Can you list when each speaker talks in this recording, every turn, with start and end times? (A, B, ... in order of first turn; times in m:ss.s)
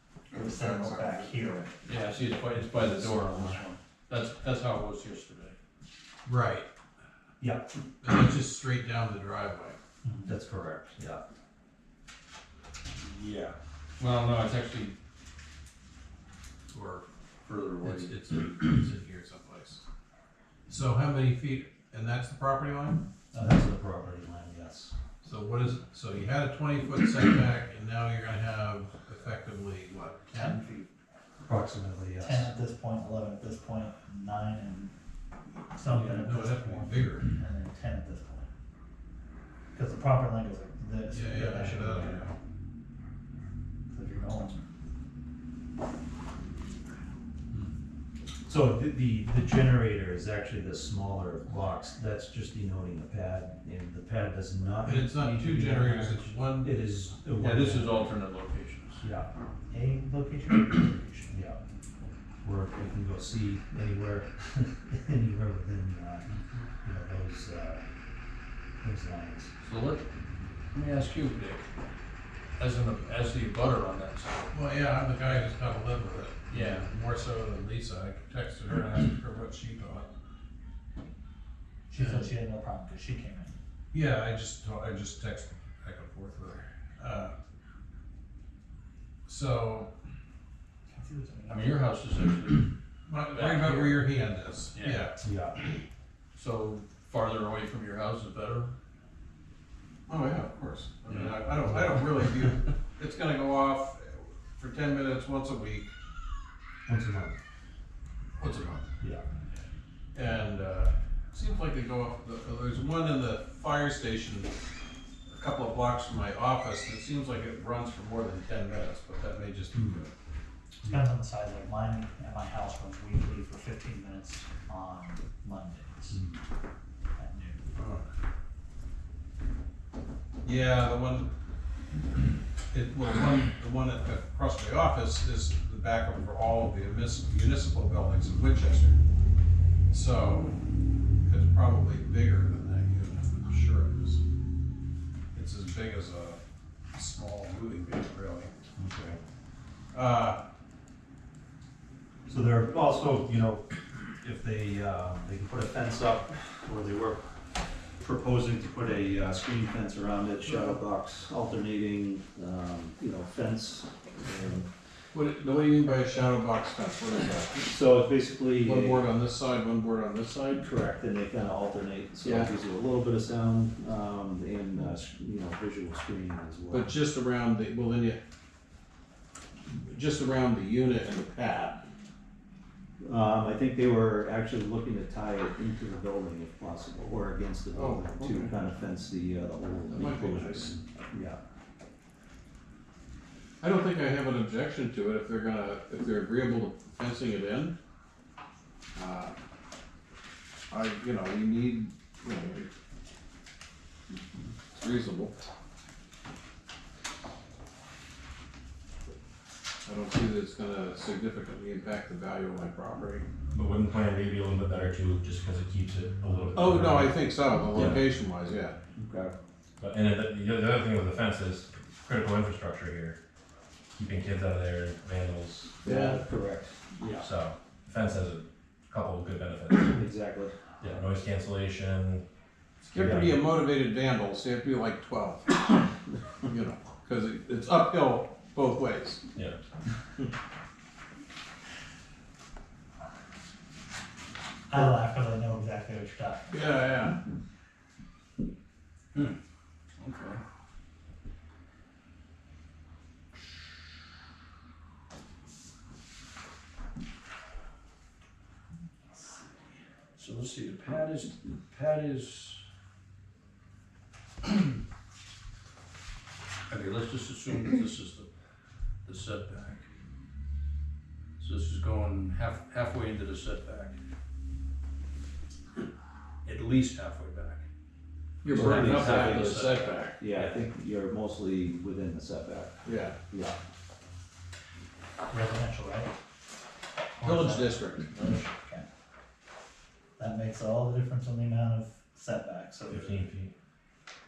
0:00.3-0:01.7 A
0:00.3-0:01.7 B
0:01.8-0:05.6 C
0:02.7-0:03.7 D
0:06.3-0:06.7 B
0:07.4-0:07.7 D
0:08.0-0:09.8 B
0:10.0-0:10.3 A
0:10.2-0:11.2 D
0:13.0-0:15.0 C
0:16.8-0:18.2 C
0:17.8-0:19.8 B
0:20.7-0:23.0 B
0:23.3-0:23.6 A
0:23.3-0:24.9 D
0:25.2-0:30.7 B
0:30.3-0:30.9 A
0:31.4-0:32.5 D
0:32.2-0:34.9 A
0:35.7-0:38.5 A
0:35.9-0:37.3 B
0:39.7-0:42.3 A
0:41.1-0:42.3 B
0:43.9-0:44.7 A
0:48.4-0:58.0 D
0:54.8-0:56.9 B
0:57.4-0:59.1 C
0:59.0-0:59.3 D
0:59.7-1:01.4 A
1:01.3-1:01.6 D
1:02.4-1:06.3 D
1:06.8-1:07.8 D
1:08.8-1:09.5 D
1:09.6-1:10.1 C
1:10.7-1:11.7 C
1:12.6-1:14.5 C
1:14.5-1:20.1 B
1:16.5-1:16.9 C
1:21.9-1:23.6 A
1:22.0-1:22.3 B
1:23.9-1:27.3 B
1:29.3-1:29.9 B
1:30.9-1:31.8 A
1:31.5-1:32.7 C
1:33.1-1:35.2 B
1:33.3-1:34.2 C
1:34.8-1:35.0 C
1:35.2-1:35.6 D
1:36.4-1:38.7 C
1:40.1-1:45.9 B
1:41.1-1:41.9 C
1:46.9-1:47.4 D
1:48.4-1:48.9 B
1:50.1-1:54.5 B
1:55.3-2:00.1 B
1:59.7-2:00.0 D
2:00.8-2:06.2 A
2:06.1-2:06.4 D
2:07.2-2:07.8 A
2:07.8-2:08.1 B
2:10.4-2:11.3 B
2:12.7-2:19.0 B
2:19.9-2:20.6 B
2:21.2-2:24.2 B
2:25.3-2:26.4 B
2:26.9-2:28.5 B
2:28.8-2:29.2 D
2:29.9-2:30.4 B
2:32.3-2:37.2 D
2:38.0-2:44.7 D
2:40.4-2:40.8 B
2:45.1-2:47.7 B
2:47.7-2:49.1 D
2:48.6-2:50.6 B
2:50.6-2:56.9 D
2:52.2-2:52.5 B
2:56.7-2:58.2 B
2:59.7-3:01.8 B
3:03.0-3:11.4 D
3:07.7-3:08.5 B
3:09.9-3:10.8 B
3:13.6-3:17.8 B
3:19.0-3:19.4 B
3:20.7-3:22.7 B
3:24.7-3:25.5 B
3:29.9-3:33.3 B
3:33.5-3:37.2 E
3:36.6-3:38.8 B
3:37.7-3:38.1 E
3:39.0-3:39.4 D
3:39.8-3:43.2 E
3:43.9-3:45.8 E
3:45.8-3:46.2 B
3:45.8-3:47.3 D
3:47.2-3:50.0 E
3:49.9-3:50.9 D
3:50.8-3:52.2 E
3:52.8-3:53.4 E
3:52.9-3:55.9 B
3:53.0-3:53.4 D
3:56.5-3:59.2 B
4:04.7-4:07.1 A
4:06.5-4:07.2 B
4:10.0-4:10.4 C
4:19.1-4:19.6 A
4:20.2-4:22.6 C
4:26.7-4:28.3 C
4:29.0-4:29.9 C
4:31.4-4:34.0 C
4:36.4-4:37.6 C
4:38.4-4:40.2 B
4:38.5-4:39.6 D
4:38.5-4:40.6 C
4:40.2-4:43.6 D
4:42.8-4:43.2 B
4:45.3-4:46.2 A
4:47.2-4:48.9 A
4:47.2-4:48.1 B
4:50.2-4:53.2 A
4:52.9-4:53.5 E